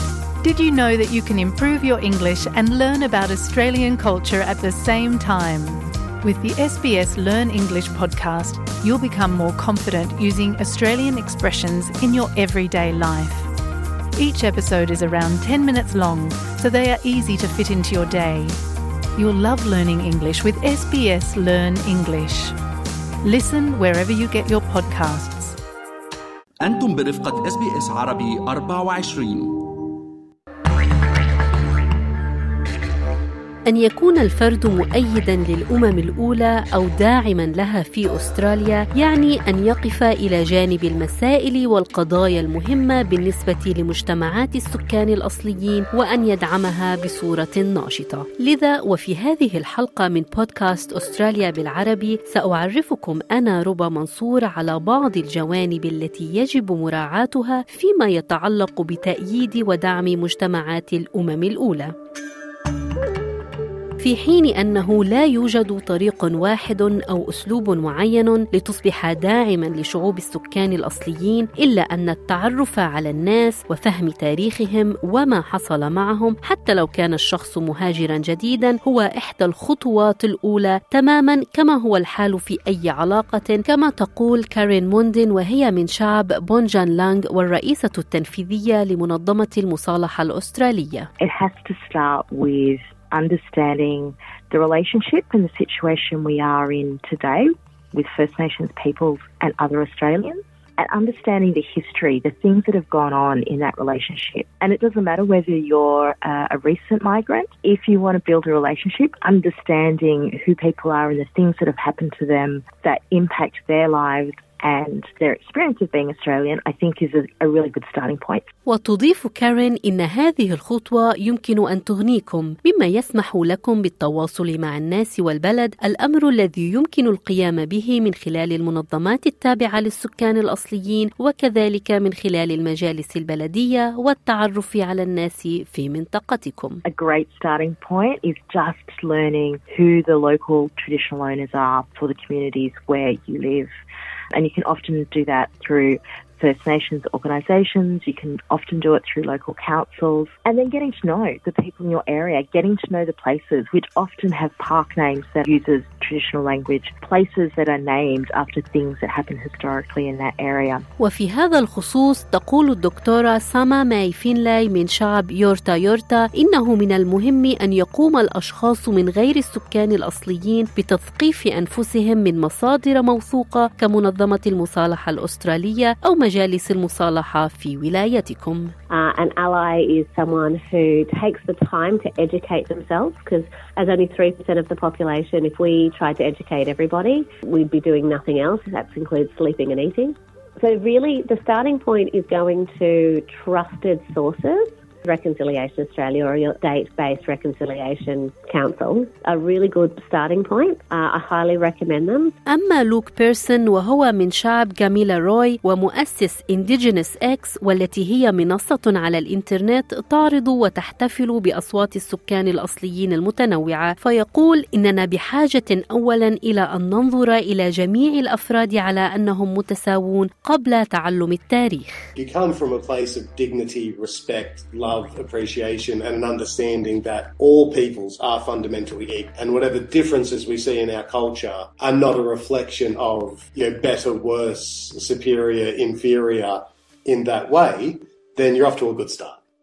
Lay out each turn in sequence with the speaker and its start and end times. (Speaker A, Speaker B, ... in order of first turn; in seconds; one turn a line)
Speaker A: 0.4-13.5
Speaker A: 14.2-18.6
Speaker A: 19.2-22.6
Speaker A: 23.2-25.6
Speaker B: 26.6-29.7
Speaker C: 33.7-61.9
Speaker C: 64.0-91.1
Speaker D: 91.2-118.5
Speaker C: 118.7-136.8
Speaker D: 136.9-143.7
Speaker D: 144.3-160.8
Speaker C: 161.0-178.7
Speaker E: 178.9-202.3
Speaker C: 202.5-222.0
Speaker F: 222.2-239.4